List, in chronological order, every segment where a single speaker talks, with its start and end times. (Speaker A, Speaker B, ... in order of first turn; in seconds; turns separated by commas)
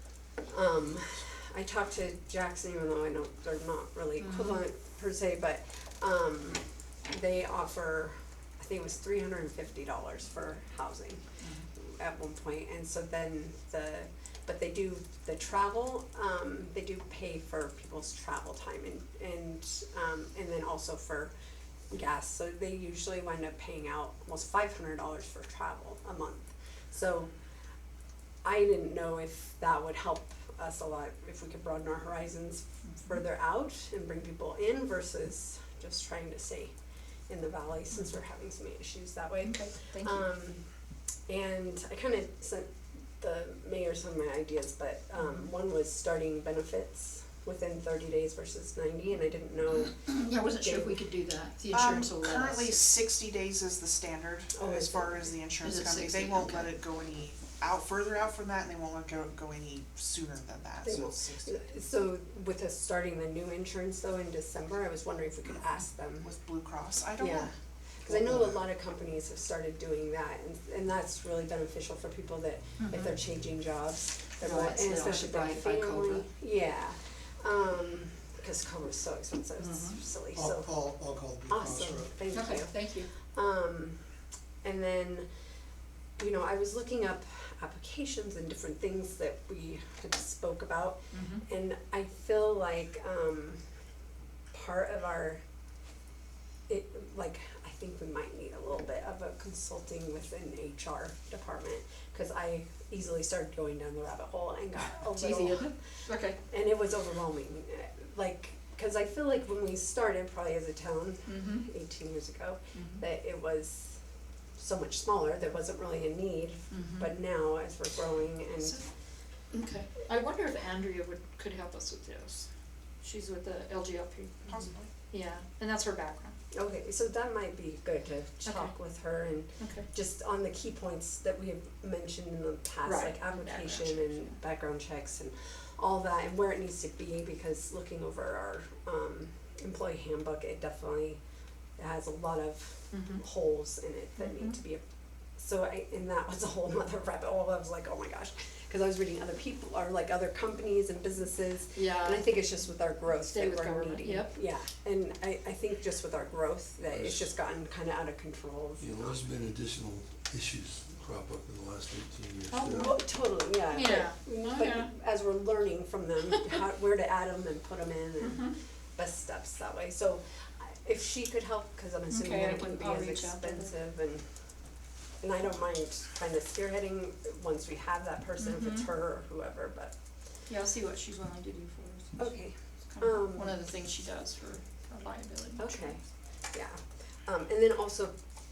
Speaker A: 0.5-21.3, Speaker B: 4.2-4.6, Speaker A: 21.9-27.3, Speaker A: 28.4-36.7, Speaker A: 37.3-40.6, Speaker B: 39.4-40.3, Speaker A: 41.3-50.0, Speaker B: 45.2-45.5, Speaker B: 50.0-52.8, Speaker A: 50.6-50.9, Speaker C: 51.7-61.6, Speaker A: 54.6-55.3, Speaker B: 55.6-56.7, Speaker A: 60.8-66.3, Speaker C: 66.2-67.5, Speaker A: 67.2-67.5, Speaker A: 68.0-80.7, Speaker C: 68.1-68.4, Speaker B: 72.8-73.1, Speaker B: 74.4-76.3, Speaker B: 79.6-80.0, Speaker D: 80.3-82.1, Speaker A: 81.5-84.0, Speaker B: 82.3-83.1, Speaker A: 84.6-85.3, Speaker A: 86.2-93.6, Speaker B: 91.1-91.4, Speaker A: 94.5-95.4, Speaker A: 96.7-114.0, Speaker B: 105.1-106.4, Speaker B: 111.3-111.7, Speaker B: 112.7-113.0, Speaker A: 114.6-118.8, Speaker B: 116.7-117.1, Speaker B: 119.5-122.5, Speaker B: 123.0-124.5, Speaker C: 124.5-124.9, Speaker B: 125.1-126.4, Speaker A: 126.5-141.2, Speaker B: 128.5-128.7, Speaker B: 129.6-129.9, Speaker B: 132.8-134.3, Speaker A: 141.8-144.8, Speaker B: 142.9-143.2, Speaker B: 144.2-144.6, Speaker A: 145.4-159.2, Speaker B: 151.8-152.5, Speaker B: 153.1-154.3, Speaker D: 156.9-157.3, Speaker D: 158.8-163.0, Speaker B: 162.5-162.9, Speaker A: 162.8-174.3, Speaker B: 163.7-164.9, Speaker B: 168.2-168.6, Speaker B: 172.1-173.7, Speaker A: 175.2-179.9, Speaker B: 178.4-178.9, Speaker B: 180.5-182.3, Speaker A: 182.2-183.5, Speaker B: 182.9-186.0, Speaker A: 185.6-186.0, Speaker A: 186.5-188.2